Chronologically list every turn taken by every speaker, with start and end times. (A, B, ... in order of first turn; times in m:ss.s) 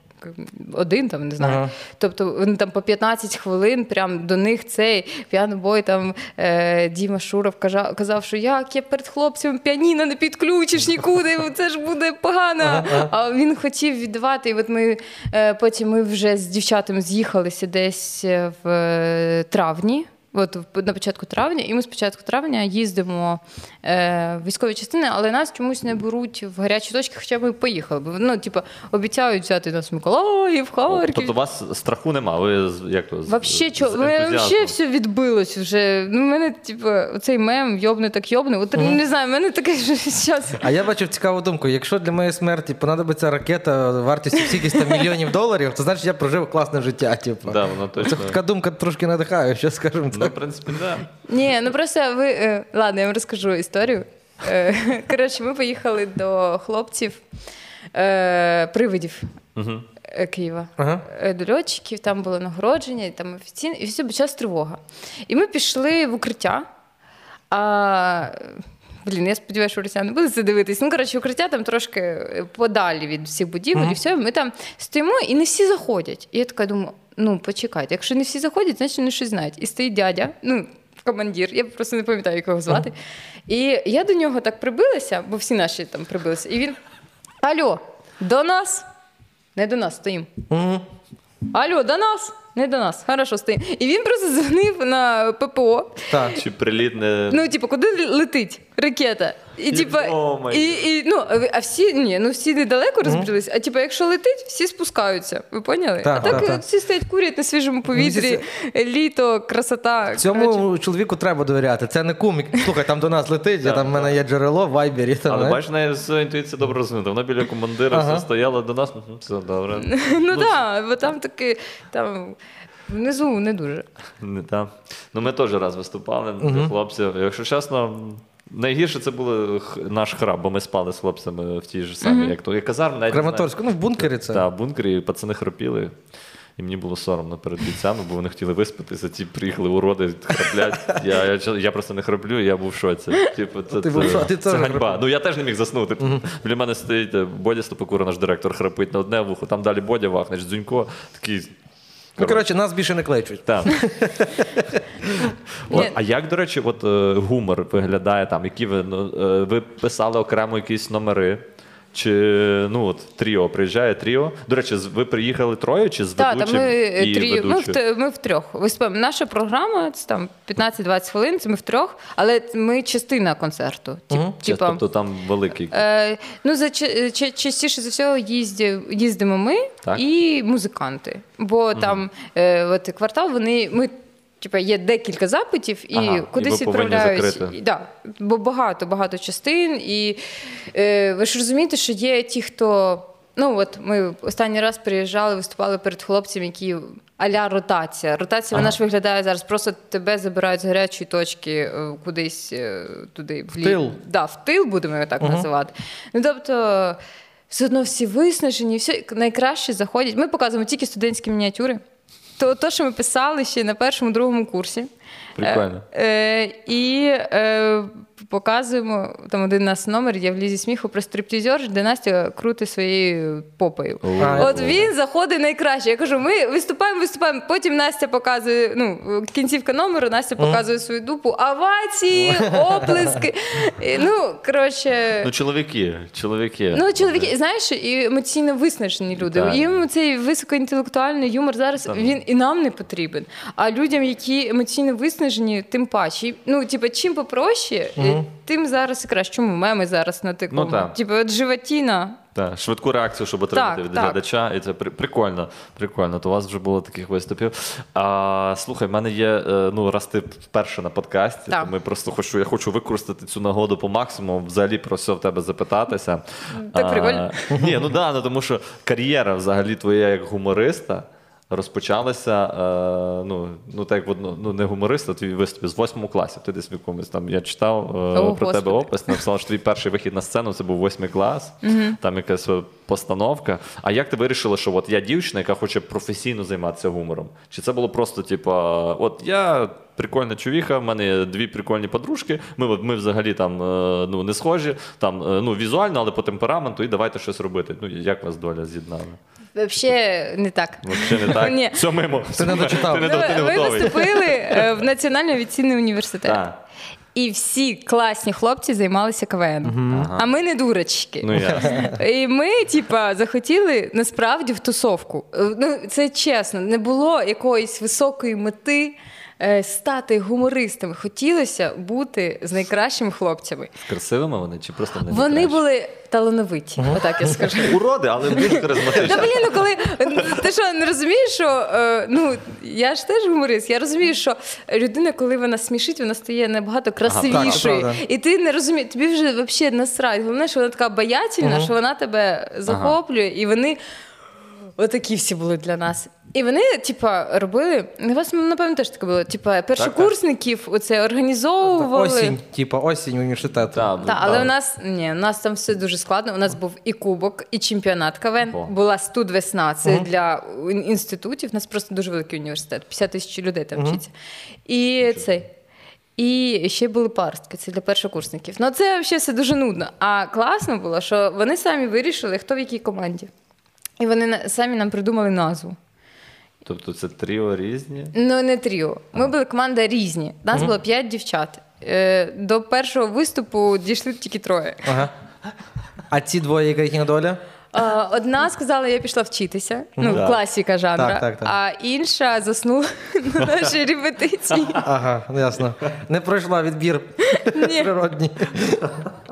0:00.2-0:31.3 A
0:01.4-0:01.7 B
0:12.6-0:13.1 B
0:30.9-0:34.7 C
0:33.3-0:40.6 A
0:40.6-0:50.4 B
0:44.5-0:45.1 A
0:47.4-0:48.4 C
0:50.1-0:51.1 C
0:51.3-0:57.2 A
0:57.9-0:59.3 A
0:59.6-0:59.9 C
1:00.1-1:06.6 A
1:00.8-1:01.0 B
1:07.5-1:23.0 A
1:23.5-1:26.8 A
1:27.4-1:28.8 A
1:29.6-1:30.3 A
1:30.5-1:30.8 B
1:31.5-1:36.4 A
1:36.1-1:36.4 B
1:36.3-1:37.5 C
1:37.3-1:50.6 A
1:39.7-1:40.8 C
1:46.0-1:46.6 B
1:46.2-1:46.5 C
1:47.9-1:48.4 B
1:50.2-1:55.6 B
1:53.6-1:54.1 C
1:55.3-2:00.6 C
1:57.9-1:58.2 B
1:59.8-2:03.8 A
2:04.2-2:16.0 C
2:06.4-2:06.7 B
2:12.0-2:12.4 A
2:13.1-2:14.4 B
2:16.6-2:31.5 C
2:23.7-2:25.0 B
2:32.2-2:32.4 C
2:32.2-2:34.8 B
2:33.4-2:33.7 C
2:35.1-2:47.8 C
2:46.2-2:54.8 A
2:54.4-2:55.8 C
2:55.7-3:10.2 A
3:01.7-3:02.0 C
3:05.9-3:07.5 C
3:10.7-3:27.0 A
3:23.6-3:24.0 B
3:25.2-3:25.5 B
3:27.5-3:31.8 A
3:32.4-3:55.3 A
3:35.4-3:35.8 C
3:44.0-3:44.9 C
3:44.2-3:44.8 B
3:52.1-3:53.0 B
3:55.2-3:57.3 C
3:56.7-4:12.2 A
3:59.2-3:59.8 C
4:01.8-4:02.2 C
4:08.0-4:08.2 B
4:10.5-4:10.9 C
4:12.3-4:59.2 C
4:13.5-4:14.2 A
4:26.5-4:27.5 A
4:38.1-4:39.2 A
4:41.6-4:42.0 A
4:59.5-5:01.8 A
5:00.8-5:04.6 C
5:02.4-5:03.4 B
5:02.5-5:06.4 A
5:06.2-5:06.6 C
5:07.1-5:23.7 A
5:09.6-5:10.1 B
5:09.9-5:10.3 C
5:11.2-5:11.8 C
5:23.8-5:25.6 C
5:25.1-5:43.8 A
5:26.8-5:27.3 B
5:27.5-5:29.6 C
5:37.0-5:37.7 C
5:37.3-5:38.0 B
5:41.4-5:41.7 B
5:42.7-5:43.0 C
5:44.8-5:52.4 A
5:49.8-5:50.1 C
5:51.6-5:54.5 B
5:53.7-5:54.5 C
5:54.0-6:04.1 A
6:03.7-6:04.0 B
6:04.6-6:05.5 A
6:06.2-6:13.3 A
6:14.0-6:15.8 A
6:16.6-6:18.1 C
6:18.1-6:25.0 A
6:24.8-6:25.1 B
6:26.1-6:27.4 B
6:27.7-6:34.8 A
6:30.0-6:30.2 B
6:30.1-6:30.4 C
6:30.9-6:31.5 B
6:34.8-6:39.1 B
6:37.3-6:37.9 A